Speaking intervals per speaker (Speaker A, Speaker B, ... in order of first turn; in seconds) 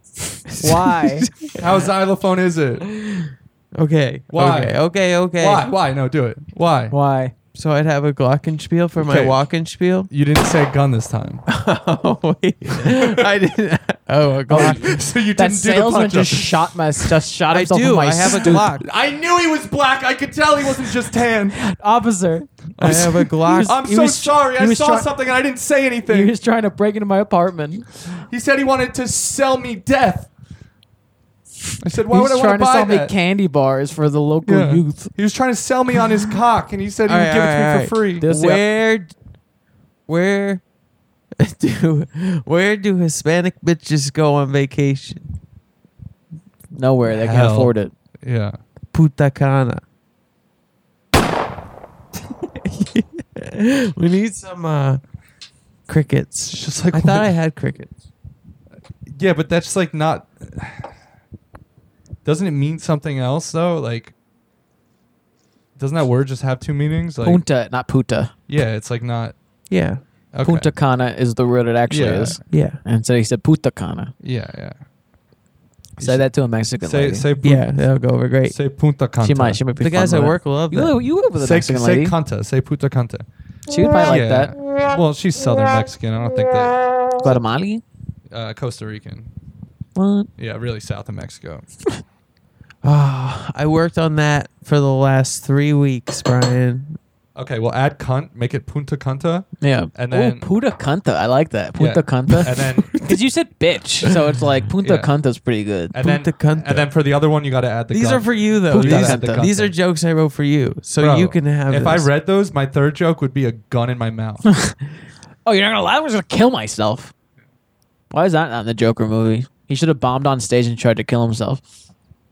Speaker A: 0.5-1.6, 2.9-5.7, 7.5-10.1, 11.5-14.9, 17.5-18.9, 22.8-23.8, 37.1-39.1, 40.1-40.6, 41.4-45.3, 48.9-49.8, 52.5-55.0, 55.9-57.9, 69.7-70.0, 72.5-72.8, 77.4-78.6, 79.8-81.0, 92.8-97.0, 106.0-106.9, 107.9-112.1
Speaker B: 0.6-1.3, 6.9-7.3, 14.5-18.7, 21.6-25.1, 26.1-27.9, 32.1-35.1, 38.2-38.6, 46.7-47.9, 67.2-68.3, 70.4-74.1, 76.0-77.3, 79.2-82.1, 83.7-84.5, 87.2-87.8, 90.0-90.3, 99.6-106.0, 108.7-109.4, 115.5-117.1, 118.1-121.6
Speaker C: 1.5-2.8, 4.3-7.0, 9.0-9.4, 10.1-11.4, 12.8-13.2, 14.5-16.7, 18.3-21.6, 22.8-26.4, 28.3-30.3, 31.8-33.1, 34.5-38.3, 47.1-48.6, 56.5-57.3, 59.1-60.9, 62.2-64.1, 65.8-67.4, 68.5-69.3, 70.3-70.7, 71.9-72.4, 74.2-74.8, 76.0-76.3, 76.8-77.8, 78.5-79.6, 81.4-83.3, 84.0-87.4, 88.3-89.3, 90.4-91.7, 97.3-100.5, 101.8-103.0, 104.8-105.1, 105.9-109.7, 111.0-114.5